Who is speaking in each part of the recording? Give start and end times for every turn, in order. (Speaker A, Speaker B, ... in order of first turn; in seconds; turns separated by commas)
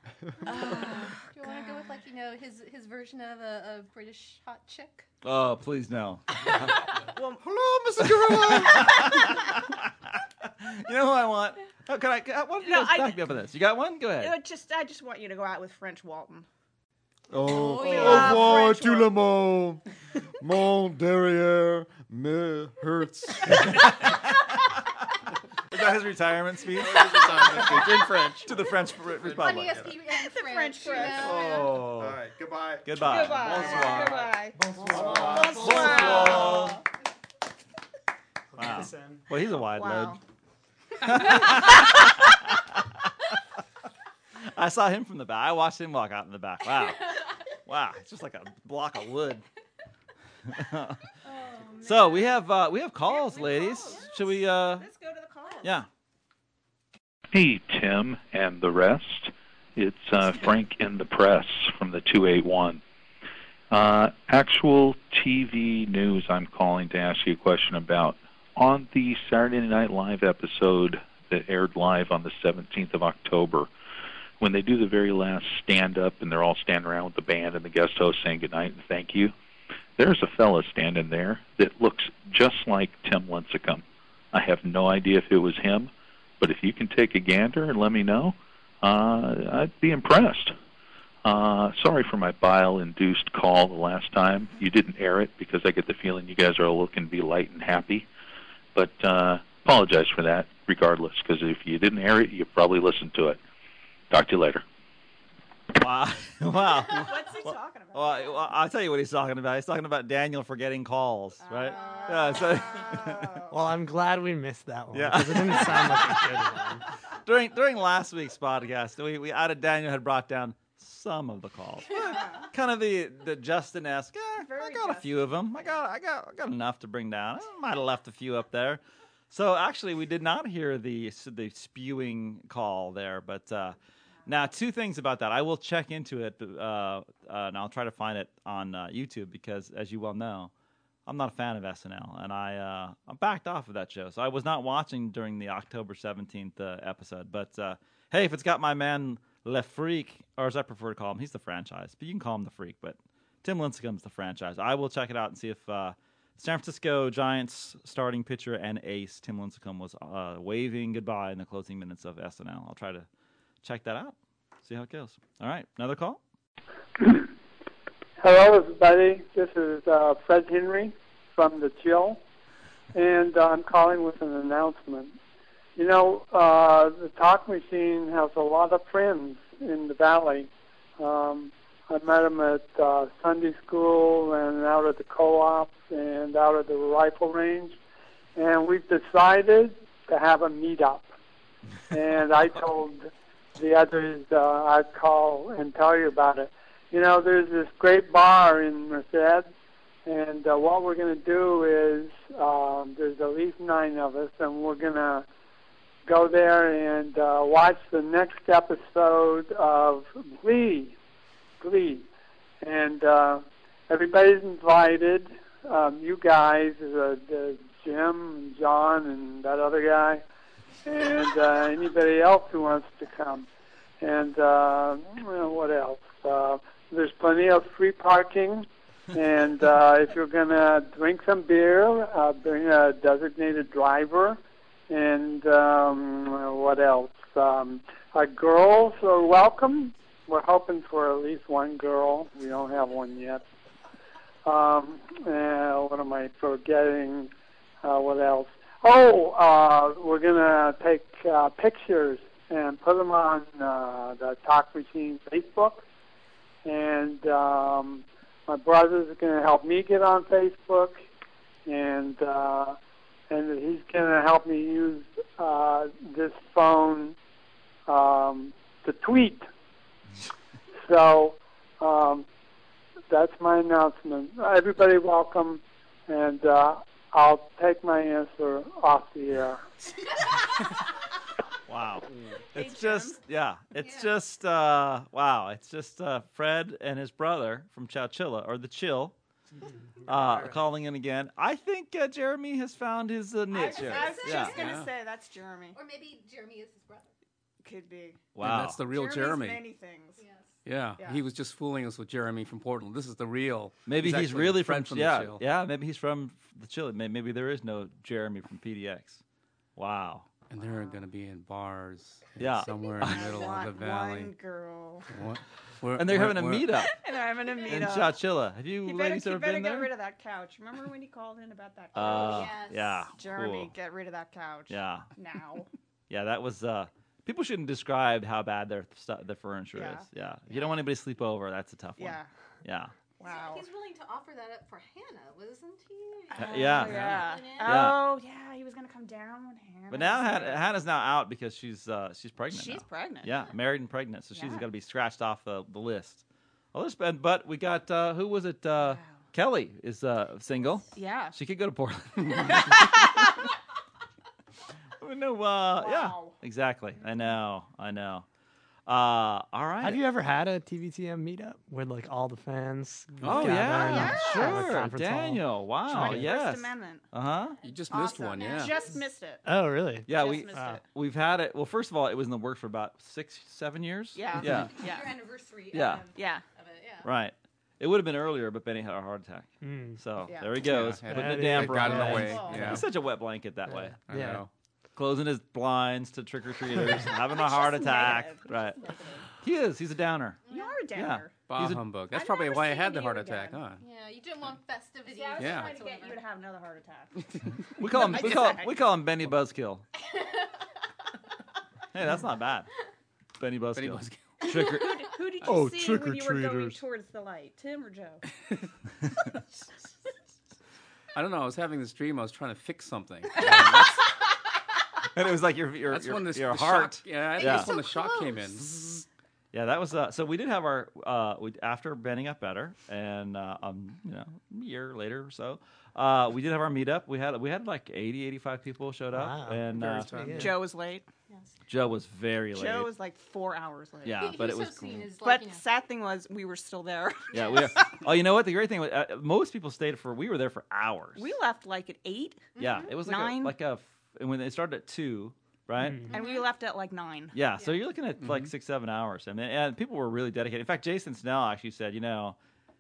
Speaker A: 0.5-1.8, Speaker B: 0.5-5.1, Speaker C: 5.2-6.8, Speaker A: 7.1-7.4, Speaker D: 7.4-9.1, Speaker C: 8.0-9.8, Speaker C: 10.4-14.3, Speaker A: 12.6-13.2, Speaker A: 14.2-16.5, Speaker D: 17.3-19.8, Speaker B: 17.4-18.7, Speaker A: 17.7-19.1, Speaker D: 20.4-23.9, Speaker C: 23.6-24.3, Speaker C: 25.7-29.9, Speaker D: 26.7-28.6, Speaker B: 29.2-31.9, Speaker D: 29.3-29.9, Speaker A: 30.1-31.4, Speaker D: 31.1-34.0, Speaker C: 31.7-32.1, Speaker C: 32.8-34.3, Speaker A: 33.0-36.8, Speaker E: 34.6-36.3, Speaker D: 34.9-36.5, Speaker C: 35.0-36.8, Speaker E: 38.5-39.2, Speaker C: 38.6-40.2, Speaker A: 39.7-40.2, Speaker C: 41.0-42.8, Speaker A: 41.1-41.4, Speaker C: 44.5-49.4, Speaker C: 50.5-51.0, Speaker A: 51.2-52.3, Speaker C: 51.8-54.9, Speaker A: 53.1-55.8, Speaker F: 57.3-62.8, Speaker F: 63.7-73.7, Speaker F: 74.4-79.3, Speaker F: 80.0-90.5, Speaker F: 91.2-98.1, Speaker F: 98.7-103.4, Speaker F: 104.1-104.6, Speaker C: 105.7-113.4, Speaker A: 106.9-108.4, Speaker A: 111.4-113.5, Speaker B: 111.7-112.5, Speaker E: 113.5-116.8, Speaker C: 114.9-116.3, Speaker C: 117.2-140.5, Speaker A: 124.4-125.3, Speaker C: 141.1-163.1, Speaker C: 163.6-166.2, Speaker G: 167.0-167.3, Speaker G: 168.2-172.2, Speaker G: 172.9-175.2, Speaker G: 175.8-187.8, Speaker G: 188.4-191.1, Speaker G: 191.9-199.5, Speaker G: 200.1-205.2, Speaker G: 206.1-210.9, Speaker G: 211.6-212.1, Speaker G: 212.6-220.2, Speaker G: 220.8-223.5, Speaker G: 224.0-243.4, Speaker G: 244.4-247.3, Speaker G: 247.8-255.8, Speaker G: 256.6-261.0, Speaker G: 261.6-262.8, Speaker G: 263.3-267.1, Speaker G: 267.9-269.4, Speaker G: 270.9-272.2, Speaker G: 273.1-279.6, Speaker C: 281.7-289.1, Speaker A: 282.5-283.2, Speaker B: 283.8-284.1, Speaker C: 290.1-294.6, Speaker E: 290.1-290.3, Speaker A: 293.5-295.8, Speaker B: 293.6-294.8, Speaker H: 294.5-294.9, Speaker B: 295.7-297.1, Speaker A: 297.6-298.2, Speaker C: 298.4-298.8, Speaker H: 298.4-299.7, Speaker A: 298.9-300.2, Speaker B: 300.2-300.5, Speaker H: 300.6-305.4, Speaker A: 301.0-301.2, Speaker C: 303.9-309.2, Speaker C: 309.8-310.2, Speaker H: 310.5-314.4, Speaker C: 312.4-313.4, Speaker B: 312.7-313.6, Speaker A: 313.0-315.1, Speaker H: 315.1-316.9, Speaker C: 315.9-317.0, Speaker A: 316.8-318.2, Speaker C: 317.6-319.9, Speaker A: 318.8-322.6, Speaker C: 321.9-323.7, Speaker B: 322.0-323.1, Speaker A: 323.1-325.7, Speaker C: 324.7-325.1, Speaker C: 326.1-332.9, Speaker A: 329.7-330.7, Speaker A: 332.0-332.3, Speaker A: 333.2-333.6, Speaker B: 333.2-337.9, Speaker A: 336.3-340.7, Speaker C: 336.4-338.0, Speaker C: 339.9-353.3, Speaker A: 342.5-343.4, Speaker A: 344.4-344.6, Speaker A: 348.8-349.1, Speaker A: 350.9-351.4, Speaker A: 352.6-353.2, Speaker C: 355.0-358.2, Speaker A: 355.8-356.4, Speaker C: 358.9-360.0, Speaker E: 359.8-366.3, Speaker H: 363.2-364.1, Speaker C: 363.2-367.6, Speaker A: 363.7-364.7, Speaker A: 365.9-367.0, Speaker H: 367.6-368.9, Speaker B: 367.6-369.0, Speaker A: 367.9-369.4, Speaker E: 369.4-370.8, Speaker C: 370.1-374.8, Speaker A: 370.1-370.8, Speaker A: 374.1-375.1, Speaker B: 374.4-377.1, Speaker C: 375.7-376.0, Speaker A: 376.1-376.4, Speaker C: 377.0-384.0, Speaker E: 379.6-380.0, Speaker A: 380.2-380.6, Speaker H: 380.6-382.9, Speaker E: 381.1-382.8, Speaker A: 382.1-382.8, Speaker E: 383.9-384.4, Speaker H: 384.1-384.5, Speaker C: 384.9-388.8, Speaker A: 387.1-389.3, Speaker C: 389.4-390.4, Speaker B: 390.4-390.9, Speaker A: 390.5-391.4, Speaker C: 390.9-391.9, Speaker H: 391.5-393.8, Speaker A: 392.1-393.6, Speaker B: 393.8-396.2, Speaker A: 395.1-398.7, Speaker H: 395.4-395.8, Speaker C: 397.8-399.8, Speaker C: 401.9-402.7, Speaker C: 403.4-405.1, Speaker H: 403.7-404.3, Speaker A: 404.4-408.2, Speaker E: 405.5-406.7, Speaker H: 411.1-414.0, Speaker C: 415.1-417.8, Speaker H: 415.9-419.0, Speaker B: 417.3-418.5, Speaker C: 419.5-430.6, Speaker E: 429.1-430.6, Speaker A: 430.1-431.1, Speaker C: 431.7-432.9, Speaker A: 432.5-434.3, Speaker C: 434.0-435.1, Speaker B: 434.1-435.6, Speaker A: 435.2-438.0, Speaker B: 437.3-437.8, Speaker C: 437.3-441.3, Speaker A: 441.2-443.5, Speaker B: 442.6-442.9, Speaker C: 442.6-446.1, Speaker B: 446.1-446.5, Speaker A: 446.1-447.4, Speaker C: 447.3-452.4, Speaker H: 448.2-448.5